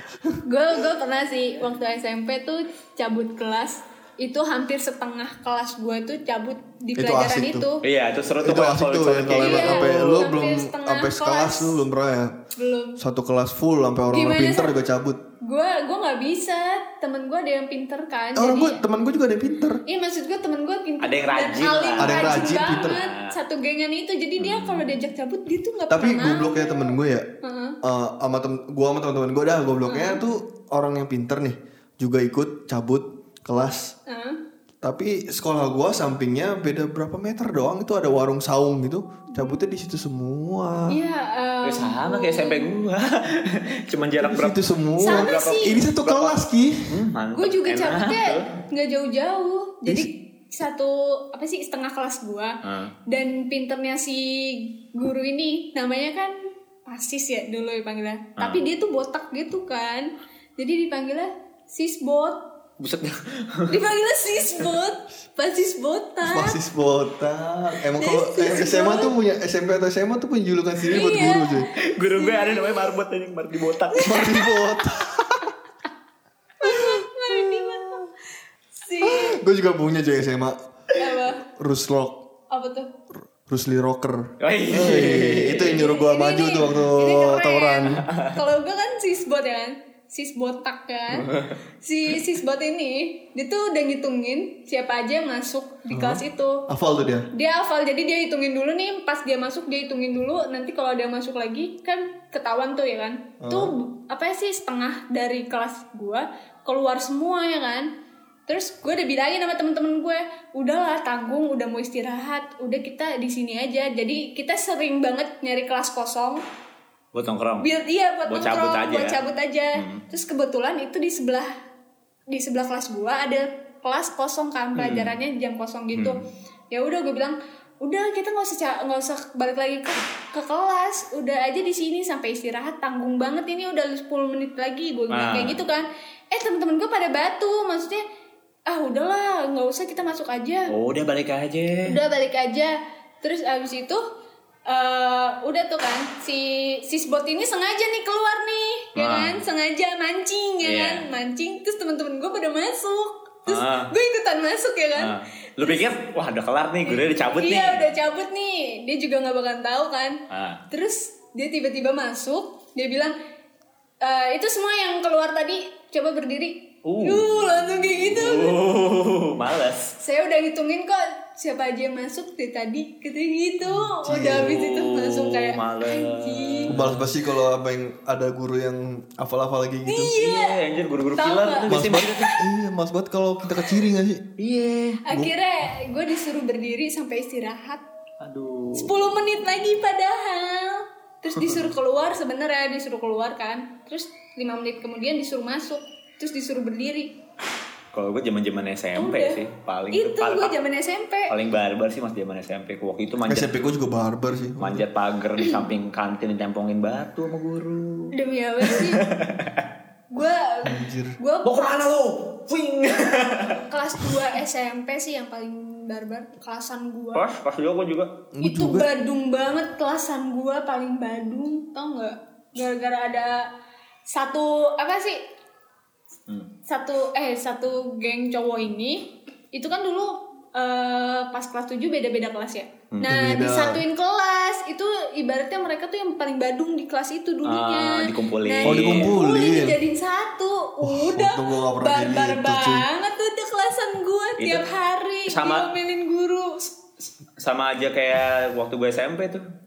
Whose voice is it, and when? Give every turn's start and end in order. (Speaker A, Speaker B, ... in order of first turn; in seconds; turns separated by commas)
Speaker A: 0.5-7.8, Speaker B: 7.0-7.7, Speaker C: 7.8-10.2, Speaker B: 8.4-12.3, Speaker A: 9.4-11.8, Speaker A: 12.6-13.0, Speaker B: 13.0-15.2, Speaker A: 14.1-14.7, Speaker A: 15.4-18.8, Speaker B: 18.4-19.8, Speaker A: 19.9-27.8, Speaker C: 21.0-23.3, Speaker B: 22.0-23.0, Speaker C: 24.4-24.9, Speaker B: 25.9-27.2, Speaker B: 27.8-33.9, Speaker A: 29.9-30.2, Speaker A: 34.1-34.4, Speaker B: 34.8-41.0, Speaker A: 39.3-39.6, Speaker A: 40.9-42.7, Speaker C: 41.6-48.5, Speaker B: 44.2-46.9, Speaker A: 45.0-45.8, Speaker A: 47.4-62.4, Speaker C: 52.6-52.9, Speaker C: 58.4-58.6, Speaker C: 62.8-63.9, Speaker A: 63.7-66.6, Speaker B: 66.2-71.7, Speaker A: 68.0-69.1, Speaker A: 70.9-72.9, Speaker C: 71.9-74.3, Speaker A: 73.9-74.5, Speaker B: 74.0-75.5, Speaker A: 76.6-78.1, Speaker B: 76.7-77.7, Speaker A: 78.8-79.4, Speaker B: 79.0-80.6, Speaker A: 81.0-81.4, Speaker B: 81.6-82.2, Speaker A: 82.5-82.9, Speaker B: 83.5-88.0, Speaker C: 84.4-85.8, Speaker A: 85.6-96.7, Speaker C: 91.1-91.5, Speaker B: 95.9-97.3, Speaker A: 97.3-107.9, Speaker B: 103.4-103.7, Speaker A: 108.5-116.4, Speaker C: 117.1-117.7, Speaker A: 117.6-121.5, Speaker C: 118.3-119.2, Speaker C: 119.7-120.0, Speaker A: 122.3-138.0, Speaker C: 124.8-125.2, Speaker C: 125.9-126.2, Speaker C: 135.1-135.6, Speaker A: 138.7-140.7, Speaker C: 140.7-141.9, Speaker A: 141.9-144.0, Speaker A: 144.7-155.9, Speaker C: 148.9-149.4, Speaker C: 150.6-151.1, Speaker C: 153.5-153.9, Speaker C: 154.9-157.8, Speaker A: 156.9-163.1, Speaker C: 160.3-160.6, Speaker A: 164.0-168.6, Speaker C: 166.8-169.9, Speaker A: 170.0-176.8, Speaker B: 174.0-174.6, Speaker C: 174.2-177.1, Speaker B: 176.7-180.1, Speaker A: 179.9-180.6, Speaker C: 180.2-182.4, Speaker A: 181.2-181.7, Speaker B: 181.7-184.2, Speaker C: 184.4-185.0, Speaker A: 185.1-187.8, Speaker C: 188.2-189.0, Speaker A: 188.7-197.1, Speaker C: 197.9-200.6, Speaker A: 198.9-201.3, Speaker C: 201.3-203.6, Speaker B: 203.3-204.8, Speaker C: 204.6-209.7, Speaker A: 208.1-209.1, Speaker A: 210.1-211.8, Speaker B: 210.7-211.2, Speaker C: 211.4-213.6, Speaker A: 213.7-217.2, Speaker C: 217.1-218.1, Speaker B: 218.3-218.9, Speaker A: 218.4-223.4, Speaker A: 224.1-225.2, Speaker A: 226.7-246.7, Speaker B: 233.1-233.8, Speaker C: 237.4-239.1, Speaker B: 238.6-239.8, Speaker B: 240.8-242.9, Speaker C: 244.4-244.6, Speaker C: 245.3-245.7, Speaker C: 247.4-249.4